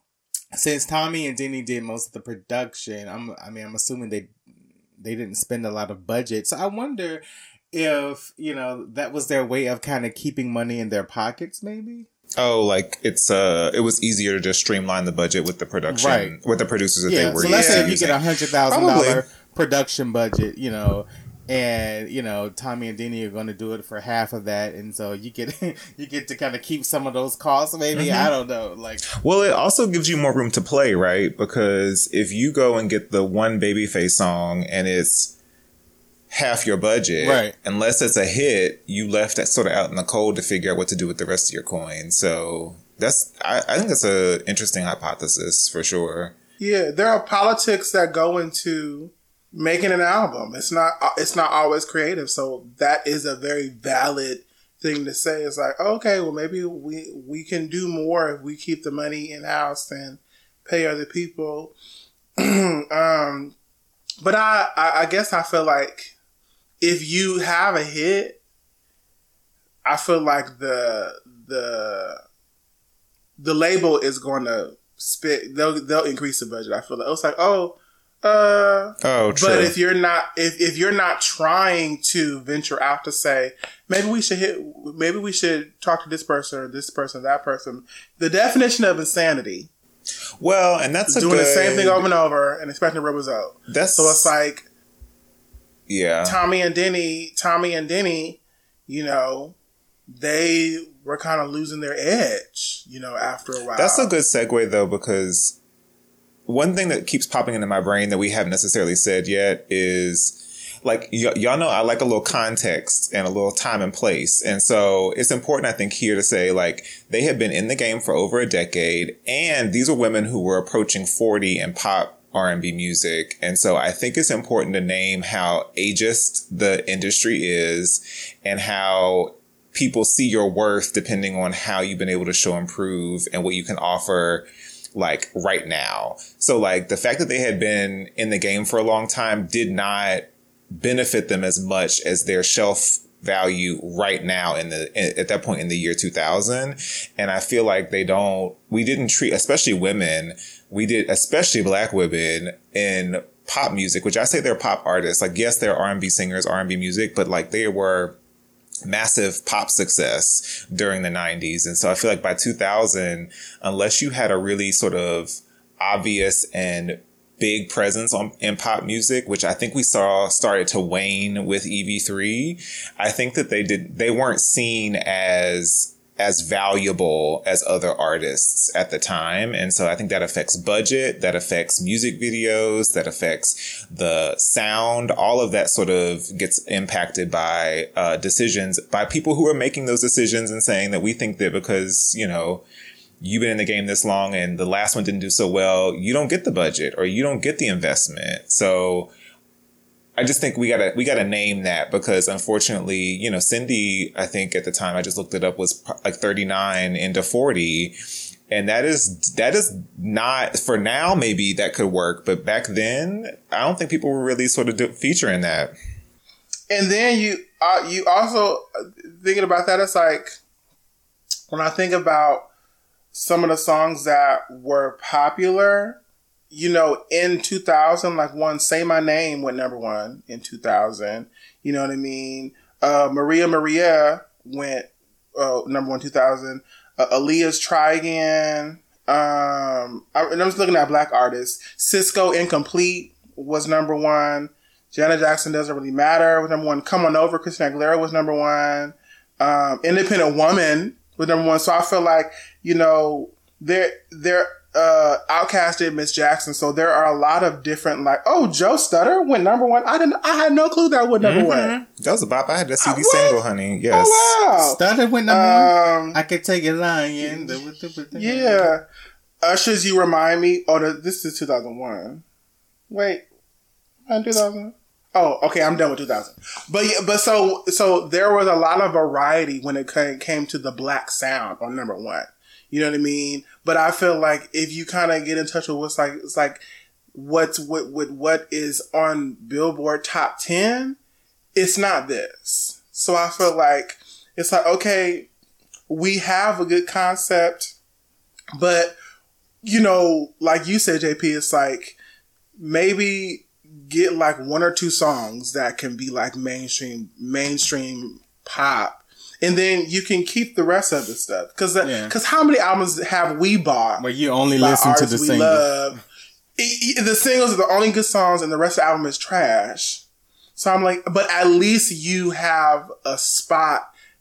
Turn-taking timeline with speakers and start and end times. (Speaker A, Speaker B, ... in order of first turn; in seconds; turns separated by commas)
Speaker A: 0.5-4.3, Speaker A: 5.0-12.1, Speaker B: 12.4-19.2, Speaker A: 15.9-16.3, Speaker A: 17.1-29.0, Speaker C: 17.4-17.9, Speaker B: 27.9-28.3, Speaker B: 29.2-35.3, Speaker B: 36.3-46.3, Speaker A: 37.2-37.5, Speaker C: 46.6-61.7, Speaker C: 62.4-63.5, Speaker C: 64.2-66.1, Speaker C: 66.8-68.4, Speaker C: 69.8-72.2, Speaker C: 73.4-89.7, Speaker B: 79.0-79.7, Speaker B: 90.4-92.0, Speaker C: 91.1-94.7, Speaker B: 93.7-94.3, Speaker B: 95.9-96.4, Speaker C: 96.2-99.5, Speaker C: 100.1-104.1, Speaker B: 103.7-105.6, Speaker B: 106.5-158.2, Speaker B: 158.8-192.6, Speaker B: 193.2-199.1, Speaker B: 200.2-207.9, Speaker B: 208.5-215.7, Speaker C: 216.7-220.4, Speaker C: 221.5-222.5, Speaker C: 223.1-226.0, Speaker C: 226.5-261.7, Speaker B: 261.2-264.4, Speaker C: 262.8-263.4, Speaker C: 263.9-266.2, Speaker A: 264.6-268.7, Speaker C: 267.2-267.6, Speaker C: 268.1-268.8, Speaker C: 269.4-272.2, Speaker C: 272.9-273.2, Speaker C: 274.1-286.6, Speaker C: 287.1-291.0, Speaker C: 291.5-295.3, Speaker C: 295.9-297.7, Speaker C: 298.6-298.9, Speaker C: 299.6-302.0, Speaker C: 302.6-314.0, Speaker A: 311.8-312.1, Speaker A: 314.0-315.6, Speaker C: 314.6-316.0, Speaker C: 316.6-320.0, Speaker C: 320.6-323.9